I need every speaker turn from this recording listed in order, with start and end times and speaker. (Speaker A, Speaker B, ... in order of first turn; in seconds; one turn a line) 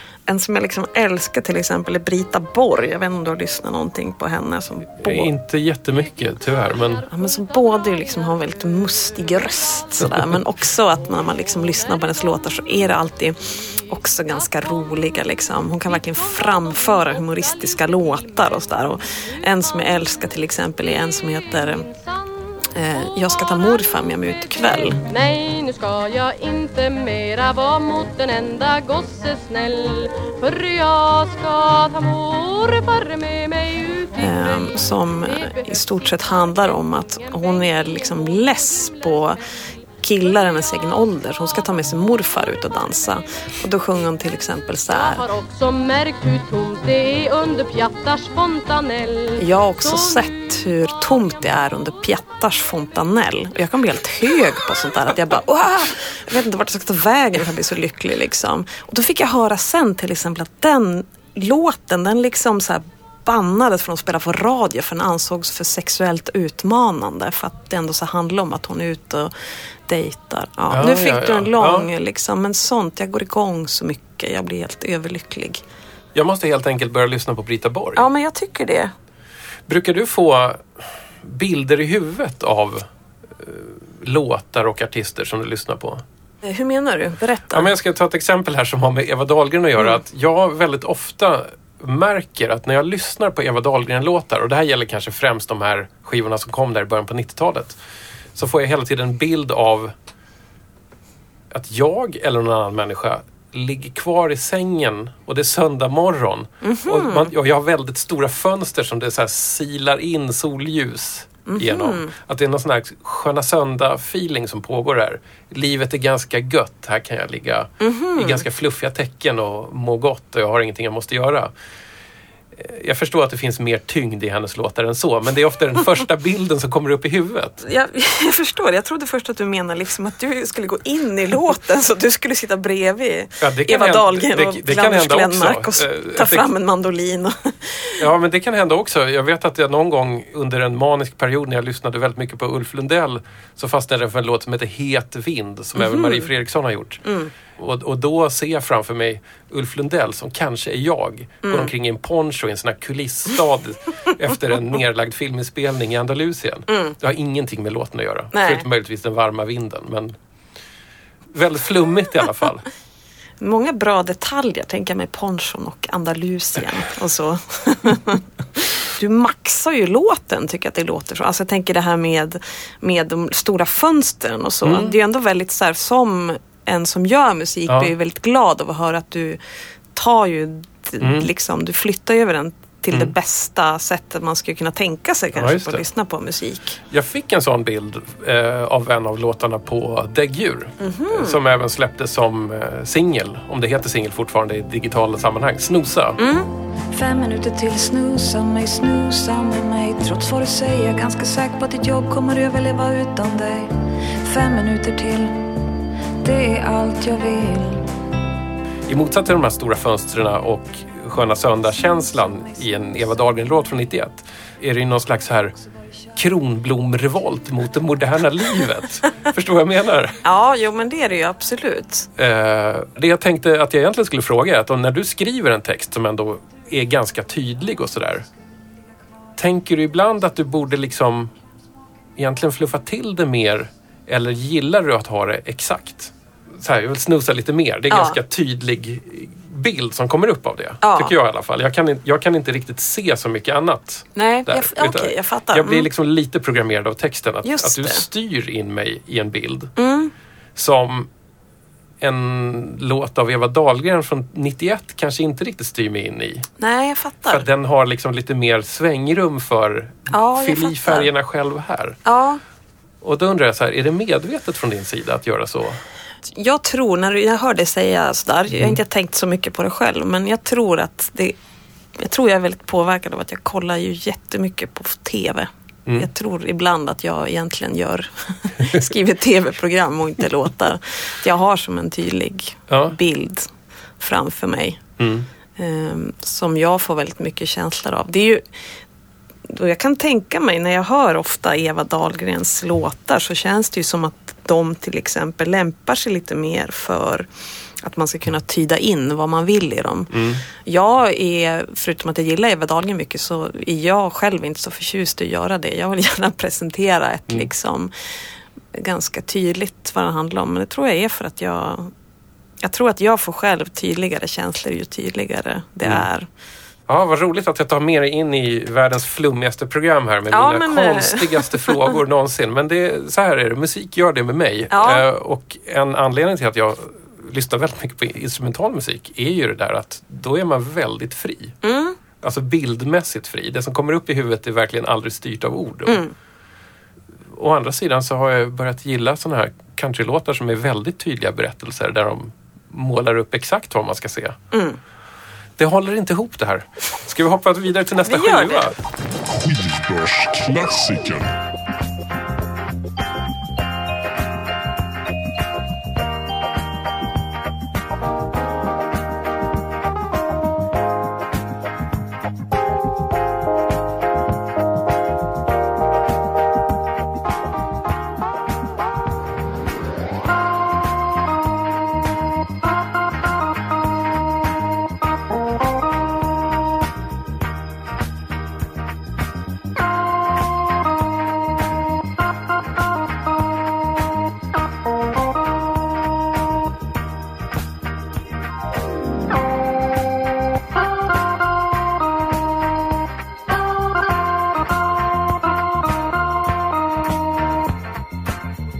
Speaker A: 0.3-5.3
Speaker B: 5.0-7.0
Speaker C: 7.0-10.0
Speaker A: 7.1-21.9
Speaker C: 11.4-12.8
Speaker C: 14.3-15.2
Speaker C: 15.9-18.7
Speaker C: 19.2-19.7
Speaker C: 21.8-22.1
Speaker A: 22.7-25.0
Speaker C: 25.1-36.1
Speaker A: 34.2-39.4
Speaker C: 37.3-39.0
Speaker A: 40.0-45.3
Speaker C: 44.9-50.3
Speaker A: 49.4-69.3
Speaker A: 69.9-75.6
Speaker B: 70.7-71.9
Speaker B: 76.1-78.0
Speaker A: 78.0-78.9
Speaker B: 79.7-86.0
Speaker A: 86.4-87.7
Speaker B: 87.5-97.8
Speaker B: 98.3-99.9
Speaker B: 101.5-121.5
Speaker A: 106.6-107.3
Speaker A: 111.5-112.1
Speaker A: 117.8-118.4
Speaker B: 122.5-127.6
Speaker A: 127.6-138.0
Speaker B: 133.4-136.4
Speaker B: 138.0-160.2
Speaker A: 145.8-146.3
Speaker A: 147.0-147.3
Speaker A: 151.4-151.7
Speaker A: 156.7-156.9
Speaker A: 158.3-158.6
Speaker B: 161.3-162.7
Speaker A: 163.4-179.4
Speaker B: 174.6-174.9
Speaker A: 179.9-186.8
Speaker B: 181.0-181.3
Speaker B: 185.3-185.8
Speaker B: 186.9-196.2
Speaker A: 190.8-191.4
Speaker A: 196.2-196.5
Speaker D: 196.9-205.6
Speaker D: 206.2-207.9
Speaker B: 208.9-215.5
Speaker B: 216.1-220.2
Speaker A: 220.2-222.1
Speaker B: 222.2-228.3
Speaker B: 229.4-231.3
Speaker B: 232.2-249.7
Speaker A: 237.9-238.2
Speaker A: 240.8-241.1
Speaker A: 244.2-245.9
Speaker A: 247.4-248.0
Speaker A: 249.8-250.1
Speaker B: 250.6-251.1
Speaker B: 252.0-256.5
Speaker A: 256.6-257.5
Speaker B: 257.3-262.0
Speaker A: 260.1-261.1
Speaker A: 262.0-262.4
Speaker B: 263.0-265.8
Speaker A: 266.3-271.4
Speaker B: 268.5-268.8
Speaker A: 272.0-283.5
Speaker B: 282.7-282.9
Speaker A: 284.0-284.8
Speaker B: 285.0-285.3
Speaker A: 285.6-288.4
Speaker A: 289.5-297.3
Speaker A: 297.8-307.9
Speaker B: 300.1-300.4
Speaker A: 308.7-311.9
Speaker A: 312.6-316.3
Speaker B: 316.9-331.6
Speaker A: 320.3-321.9
Speaker A: 324.7-325.0
Speaker A: 331.6-332.0
Speaker B: 332.2-336.0
Speaker A: 335.9-336.1
Speaker B: 337.3-344.4
Speaker A: 344.5-344.8
Speaker B: 345.6-348.8
Speaker A: 348.1-348.7
Speaker E: 349.3-351.3